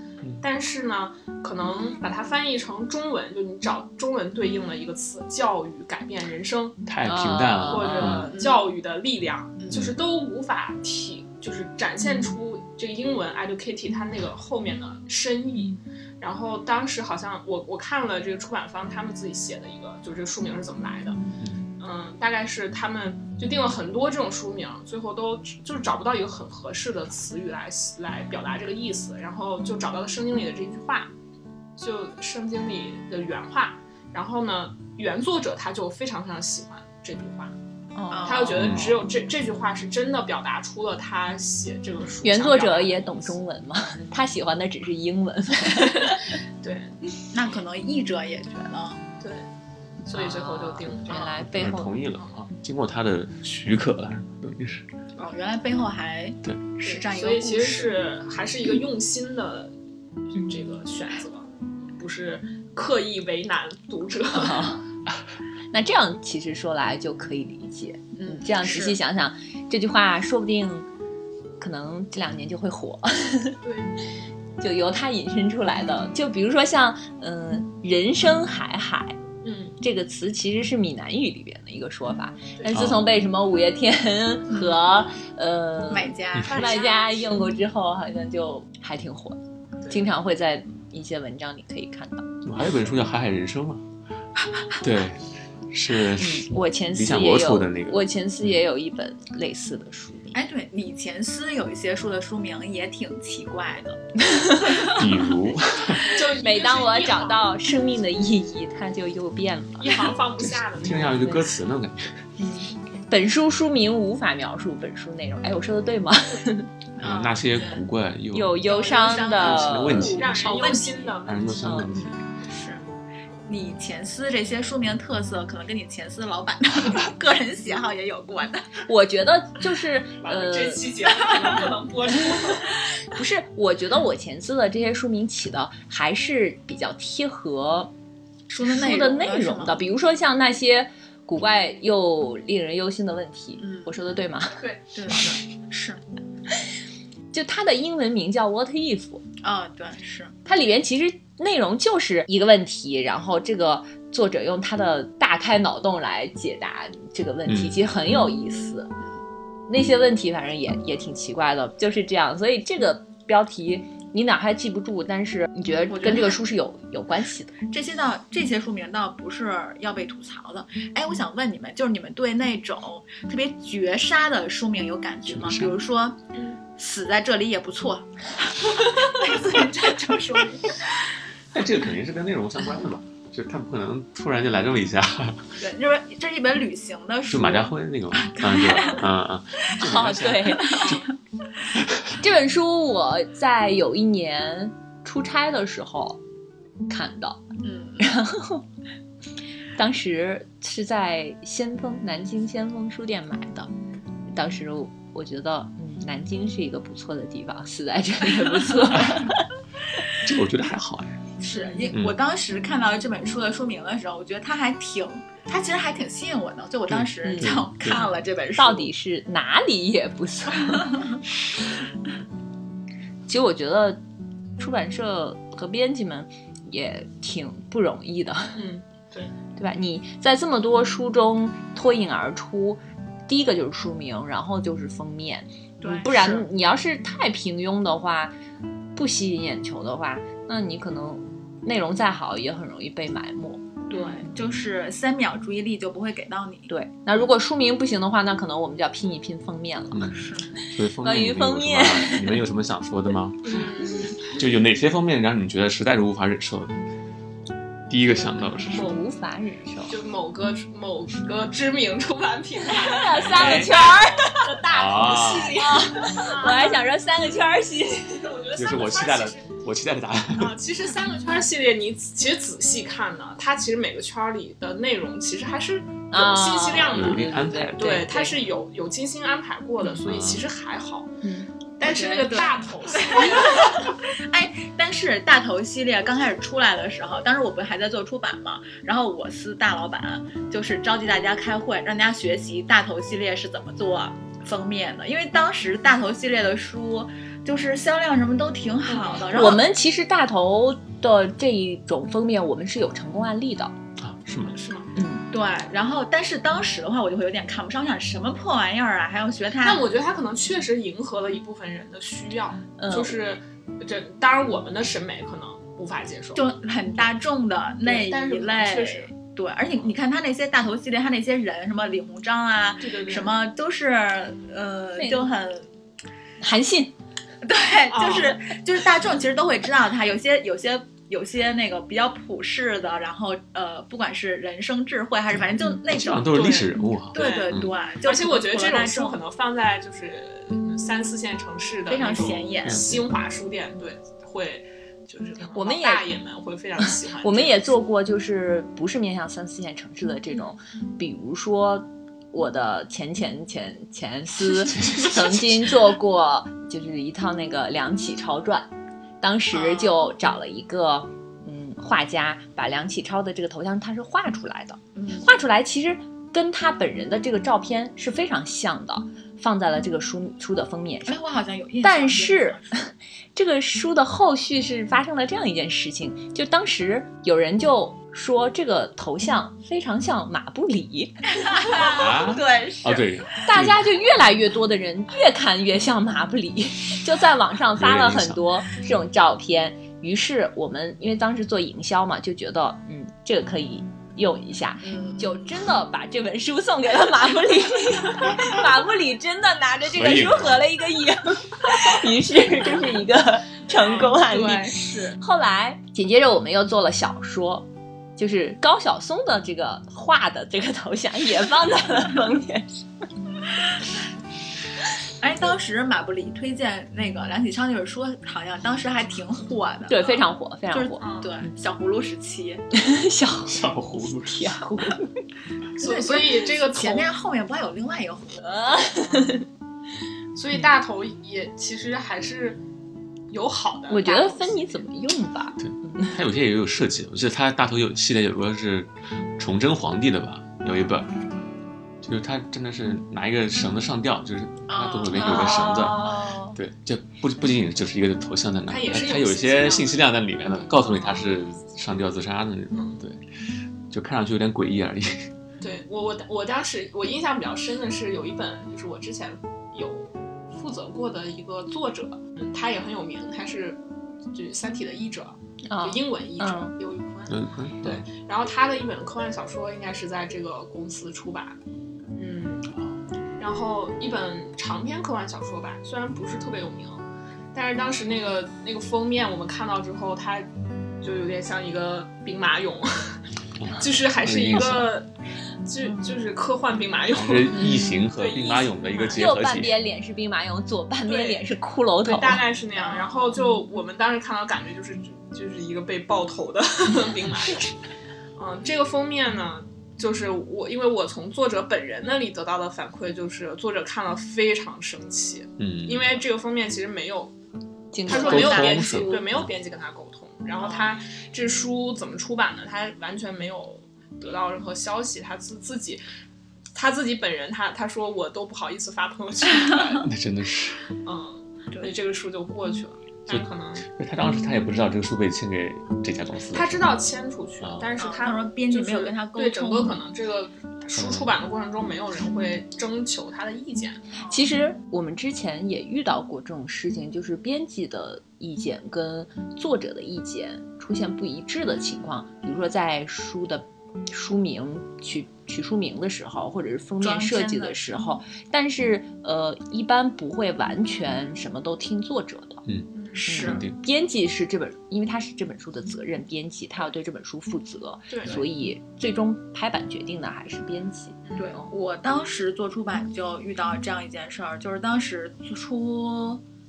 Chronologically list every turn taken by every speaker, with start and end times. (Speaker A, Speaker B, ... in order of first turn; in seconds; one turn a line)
Speaker A: 0.4-6.8
Speaker B: 6.9-8.3
Speaker C: 7.0-8.2
Speaker A: 7.7-21.2
Speaker D: 8.3-8.7
Speaker B: 9.7-10.0
Speaker B: 21.4-21.6
Speaker A: 21.8-31.1
Speaker A: 31.8-37.6
Speaker C: 38.0-38.5
Speaker D: 38.1-38.8
Speaker A: 38.2-43.4
Speaker B: 38.6-39.0
Speaker C: 42.2-46.3
Speaker A: 46.0-47.0
Speaker D: 47.3-49.0
Speaker A: 49.2-49.5
Speaker A: 50.1-51.4
Speaker C: 50.5-52.0
Speaker B: 51.4-54.9
Speaker D: 55.2-58.0
Speaker A: 56.8-59.7
Speaker C: 60.4-60.6
Speaker A: 60.4-64.7
Speaker C: 64.3-64.8
Speaker C: 65.7-70.9
Speaker D: 68.2-69.0
Speaker C: 71.6-73.5
Speaker A: 73.6-73.9
Speaker C: 74.6-79.2
Speaker A: 79.4-79.8
Speaker C: 79.8-92.3
Speaker B: 82.7-83.0
Speaker D: 85.9-86.8
Speaker A: 86.5-87.2
Speaker B: 92.4-93.8
Speaker B: 94.8-98.6
Speaker C: 96.2-100.4
Speaker D: 100.3-104.0
Speaker C: 104.3-105.0
Speaker B: 104.9-106.1
Speaker A: 106.1-107.5
Speaker C: 106.4-110.0
Speaker A: 109.8-111.4
Speaker B: 110.4-112.2
Speaker C: 112.4-116.7
Speaker D: 117.0-117.8
Speaker B: 117.0-118.6
Speaker C: 118.3-120.6
Speaker D: 118.6-121.2
Speaker B: 119.2-120.4
Speaker A: 119.8-121.9
Speaker B: 121.3-122.1
Speaker C: 121.6-122.1
Speaker D: 122.4-122.8
Speaker D: 123.5-128.7
Speaker C: 128.9-130.9
Speaker A: 130.2-132.7
Speaker C: 133.1-137.9
Speaker D: 138.5-139.8
Speaker C: 138.6-145.3
Speaker D: 143.6-143.9
Speaker A: 144.6-145.2
Speaker D: 144.9-146.0
Speaker C: 147.3-149.2
Speaker D: 149.4-150.3
Speaker C: 150.4-158.9
Speaker B: 157.5-158.3
Speaker C: 159.7-167.6
Speaker D: 165.9-166.4
Speaker D: 167.7-176.2
Speaker B: 175.3-175.8
Speaker A: 176.3-176.6
Speaker D: 176.8-180.9
Speaker B: 181.5-185.6
Speaker D: 185.6-189.1
Speaker B: 187.3-190.8
Speaker C: 189.8-191.0
Speaker D: 190.6-191.0
Speaker B: 191.8-192.1
Speaker C: 192.2-196.2
Speaker C: 196.9-197.4
Speaker D: 197.6-198.1
Speaker C: 198.0-198.7
Speaker C: 199.8-203.7
Speaker C: 204.3-209.4
Speaker B: 208.9-209.3
Speaker B: 210.2-211.2
Speaker D: 211.4-218.9
Speaker B: 216.9-218.0
Speaker C: 217.2-221.0
Speaker C: 223.3-224.0
Speaker C: 224.6-228.6
Speaker A: 228.5-229.3
Speaker C: 229.6-238.3
Speaker D: 235.8-236.5
Speaker C: 238.9-243.7
Speaker D: 243.9-246.7
Speaker C: 246.7-250.1
Speaker B: 249.9-253.6
Speaker D: 250.0-250.5
Speaker C: 251.0-252.4
Speaker A: 253.4-254.4
Speaker B: 254.3-256.8
Speaker B: 257.9-259.0
Speaker C: 258.7-260.0
Speaker A: 259.9-266.8
Speaker C: 262.7-264.6
Speaker B: 263.1-263.7
Speaker B: 264.7-265.6
Speaker C: 265.6-268.4
Speaker A: 268.2-269.5
Speaker B: 268.6-270.6
Speaker A: 270.3-281.1
Speaker C: 276.1-278.4
Speaker B: 276.8-277.9
Speaker B: 280.0-280.5
Speaker C: 281.2-281.5
Speaker A: 281.8-283.9
Speaker D: 281.8-299.6
Speaker A: 298.9-299.6
Speaker C: 299.3-303.8
Speaker B: 304.0-304.5
Speaker A: 304.4-304.9
Speaker C: 304.9-305.3
Speaker D: 305.3-309.9
Speaker A: 309.6-316.4
Speaker C: 312.8-313.2
Speaker D: 316.4-325.7
Speaker A: 317.8-319.1
Speaker A: 322.8-323.4
Speaker C: 325.0-325.3
Speaker C: 326.4-326.9
Speaker D: 327.4-339.2
Speaker A: 327.9-328.4
Speaker B: 335.3-337.7
Speaker A: 337.1-347.6
Speaker D: 341.9-342.9
Speaker B: 342.6-343.1
Speaker C: 345.5-346.1
Speaker C: 347.2-358.7
Speaker B: 354.6-355.5
Speaker C: 359.2-371.2
Speaker D: 359.5-360.1
Speaker D: 364.9-365.3
Speaker D: 371.1-372.7
Speaker C: 371.8-381.2
Speaker D: 381.4-383.1
Speaker B: 381.7-383.8
Speaker C: 383.5-412.9
Speaker B: 387.8-388.4
Speaker D: 394.8-395.4
Speaker B: 399.9-400.6
Speaker A: 403.7-404.1
Speaker D: 404.2-405.2
Speaker D: 415.2-422.6
Speaker C: 419.9-421.0
Speaker A: 421.0-421.4
Speaker C: 422.7-425.2
Speaker B: 423.5-424.5
Speaker A: 425.8-427.1
Speaker D: 425.8-428.4
Speaker C: 428.4-429.4
Speaker A: 429.1-429.4
Speaker A: 430.4-432.6
Speaker A: 433.3-434.5
Speaker C: 433.9-436.2
Speaker B: 435.6-441.1
Speaker B: 442.0-453.2
Speaker D: 444.7-446.5
Speaker C: 445.1-446.1
Speaker A: 445.2-446.0
Speaker A: 448.7-450.1
Speaker A: 450.6-451.4
Speaker A: 452.7-453.0
Speaker B: 453.9-455.3
Speaker A: 455.6-463.8
Speaker A: 464.3-471.6
Speaker C: 465.7-466.8
Speaker B: 467.3-468.1
Speaker A: 472.1-472.7
Speaker A: 473.4-480.5
Speaker A: 481.0-483.2
Speaker B: 483.6-484.9
Speaker A: 483.8-485.1
Speaker A: 485.6-489.3
Speaker B: 487.1-489.8
Speaker C: 489.1-492.4
Speaker A: 491.1-491.4
Speaker A: 492.0-497.8
Speaker D: 492.8-493.1
Speaker A: 498.4-507.3
Speaker B: 505.6-506.2
Speaker C: 507.9-508.6
Speaker A: 508.1-516.0
Speaker D: 508.1-509.4
Speaker B: 508.1-509.5
Speaker D: 510.6-511.0
Speaker A: 516.7-520.1
Speaker B: 520.0-520.9
Speaker A: 521.0-523.9
Speaker B: 523.3-526.8
Speaker A: 526.5-534.0
Speaker B: 527.6-527.9
Speaker D: 528.0-530.0
Speaker B: 531.0-531.3
Speaker C: 534.3-552.6
Speaker D: 547.0-548.0
Speaker B: 552.7-553.8
Speaker D: 553.1-553.6
Speaker C: 553.3-561.6
Speaker A: 558.1-558.4
Speaker D: 561.4-566.4